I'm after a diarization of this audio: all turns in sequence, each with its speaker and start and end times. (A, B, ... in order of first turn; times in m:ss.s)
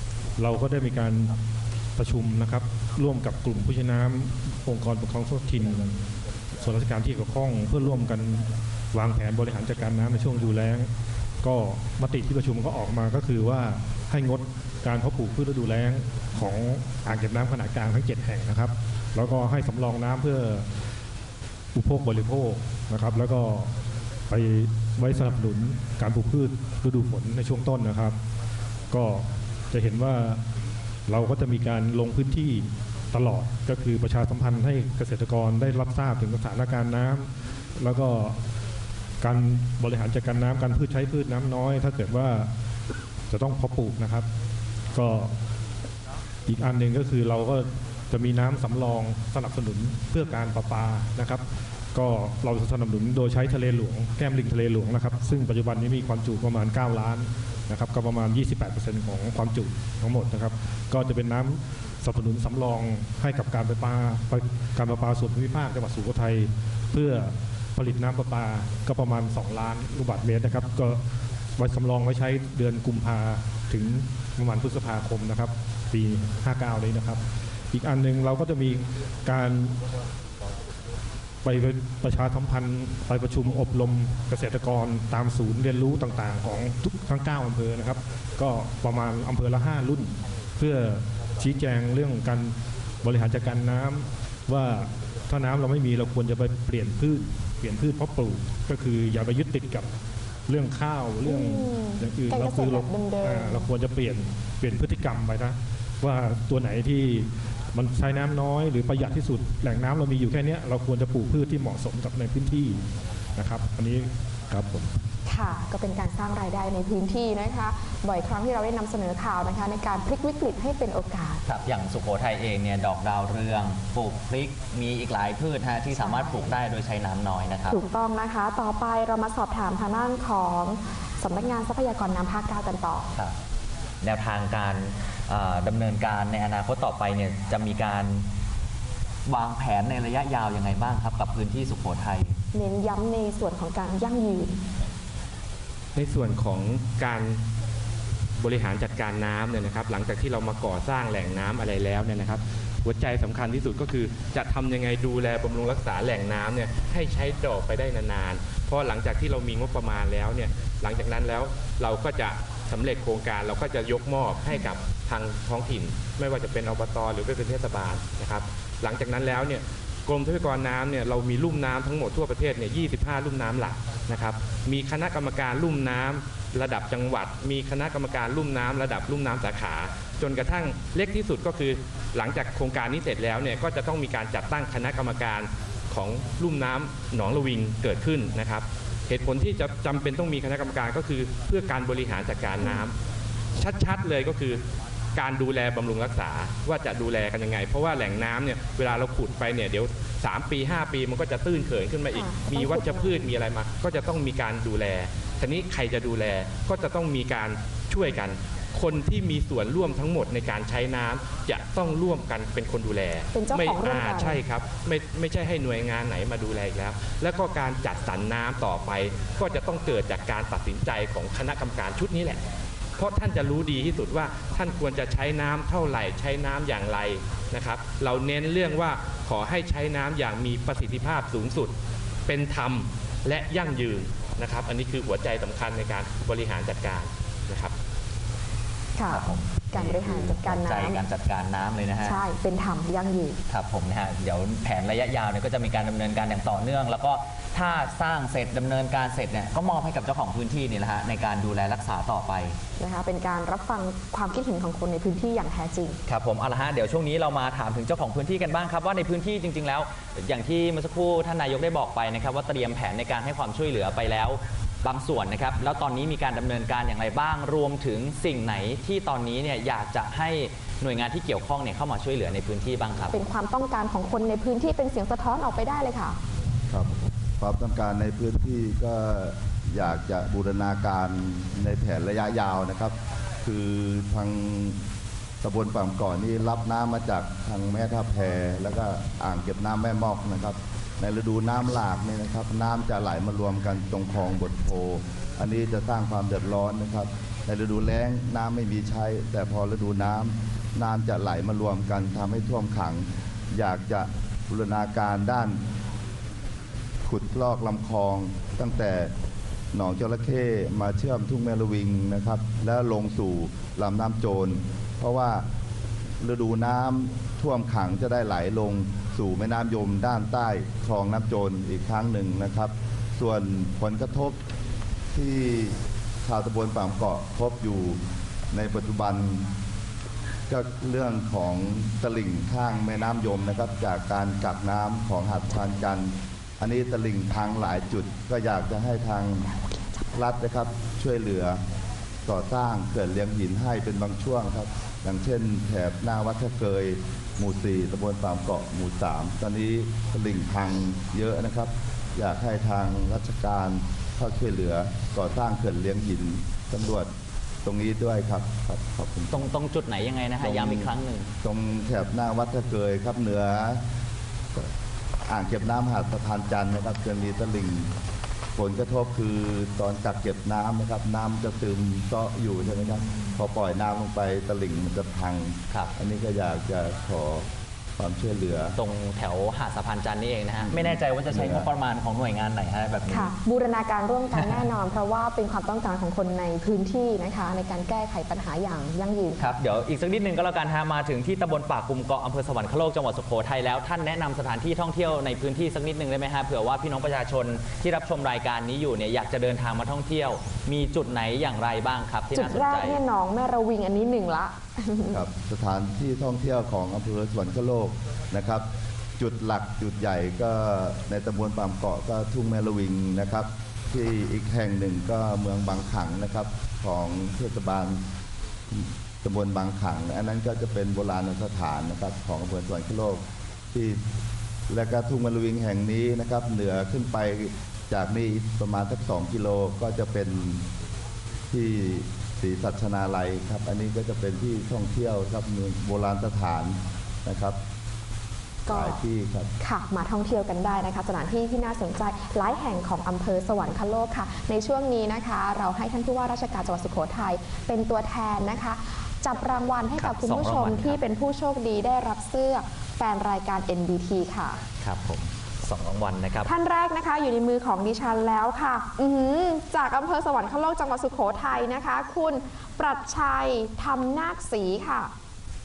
0:00.4-0:01.3 A
0:02.0-0:06.0 A
0:06.6-0:10.9 A
0:11.4-0:20.7 A
0:21.7-0:23.7 A
0:24.3-0:28.2 A
0:28.9-0:30.4 A
0:31.1-0:38.4 A
0:39.2-0:42.5 A
0:43.3-0:44.3 A
0:44.9-0:45.3 A
0:46.5-1:11.0 A
1:11.6-1:19.8 A
1:21.4-1:39.9 A
1:40.5-1:52.8 A
1:41.2-1:43.7 B
1:53.4-1:54.9 A
1:55.2-2:01.4 B
2:01.4-2:07.8 C
2:06.0-2:06.5 B
2:07.7-2:13.1 B
2:14.0-2:18.3 C
2:19.3-2:22.4 C
2:22.5-2:24.6 B
2:25.9-2:27.4 D
2:28.4-3:12.9 D
3:13.6-3:14.6 D
3:15.2-3:42.4 D
3:22.1-3:23.3 B
3:33.3-3:34.4 B
3:43.0-3:51.7 D
3:52.3-3:57.7 D
3:59.0-4:01.0 B
3:59.1-4:02.2 C
4:02.0-4:03.4 B
4:03.5-4:12.6 C
4:12.8-4:16.0 B
4:16.1-4:33.2 C
4:33.1-4:36.2 B
4:36.7-4:44.8 E
4:45.4-5:05.6 E
5:07.0-5:09.1 E
5:09.7-5:15.4 E
5:16.2-5:24.4 E
5:25.1-5:28.0 E
5:28.5-5:29.5 E
5:30.5-5:39.5 E
5:40.1-5:41.6 E
5:42.2-5:57.1 E
5:57.6-5:59.5 E
5:59.3-6:01.3 C
6:00.4-6:00.9 E
6:01.4-6:03.8 E
6:05.3-6:07.9 E
6:08.5-6:17.4 E
6:18.0-6:18.8 E
6:18.7-6:23.3 C
6:20.6-6:21.7 E
6:23.1-6:29.6 B
6:24.3-6:24.7 C
6:29.4-6:43.0 C
6:42.3-6:45.2 B
6:45.1-6:48.6 E
6:49.2-6:58.0 E
6:58.7-7:03.2 E
7:03.7-7:04.0 E
7:04.7-7:10.6 E
7:11.5-7:17.6 E
7:18.7-7:19.0 B
7:18.7-7:19.5 E
7:19.6-7:34.6 B
7:30.0-7:31.0 C
7:34.8-7:36.5 C
7:36.4-7:45.1 B